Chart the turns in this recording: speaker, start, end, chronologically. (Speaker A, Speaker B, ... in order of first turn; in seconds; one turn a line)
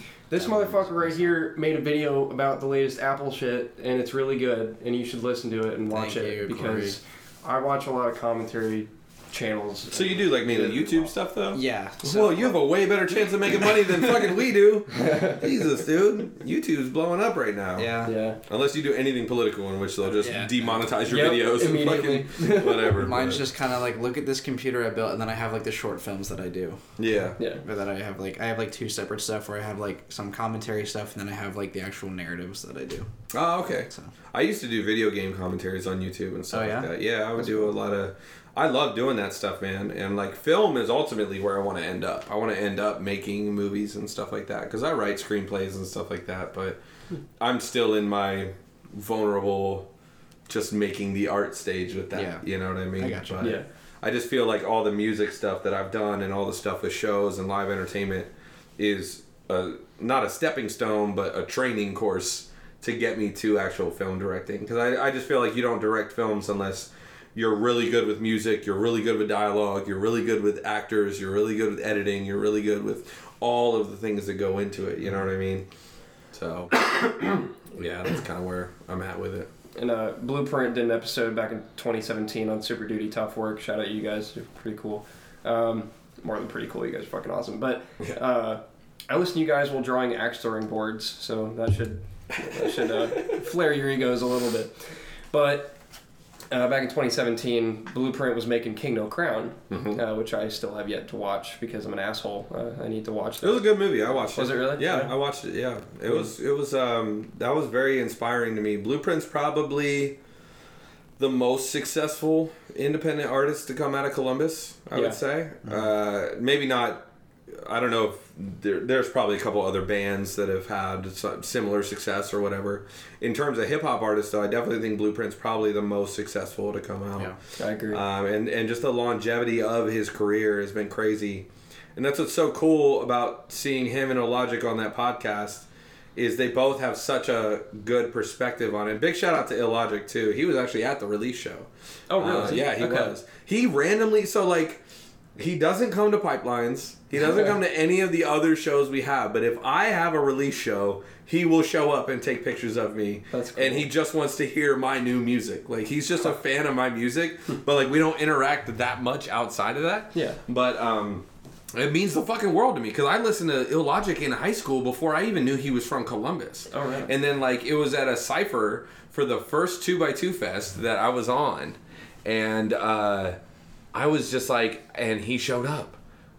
Speaker A: 0.3-11.1
Speaker B: 0.4-1.3
Speaker B: 5.9-7.0
Speaker C: 9.9-23.4
Speaker B: 11.5-12.6
Speaker A: 14.9-15.4
Speaker B: 17.8-18.1
Speaker A: 18.0-18.4
Speaker B: 20.2-20.8
Speaker A: 21.0-22.9
Speaker B: 22.9-26.8
Speaker C: 27.0-27.4
Speaker A: 27.4-27.6
Speaker B: 27.6-33.1
Speaker C: 33.3-46.8
Speaker B: 36.5-36.9
Speaker A: 37.4-37.7
Speaker C: 47.4-49.9
Speaker C: 50.5-75.7
Speaker B: 52.1-52.4
Speaker B: 53.0-53.5
Speaker A: 53.4-53.6
Speaker C: 76.3-79.5
Speaker A: 79.8-95.8
Speaker C: 92.5-93.3
Speaker A: 96.5-103.7
Speaker C: 99.7-100.0
Speaker C: 103.4-110.2
Speaker A: 104.3-105.1
Speaker C: 111.2-144.8
Speaker A: 127.6-128.0
Speaker A: 142.1-143.1
Speaker C: 145.3-173.4
Speaker A: 153.3-153.9
Speaker A: 160.1-160.4
Speaker A: 166.7-167.1
Speaker C: 173.9-176.0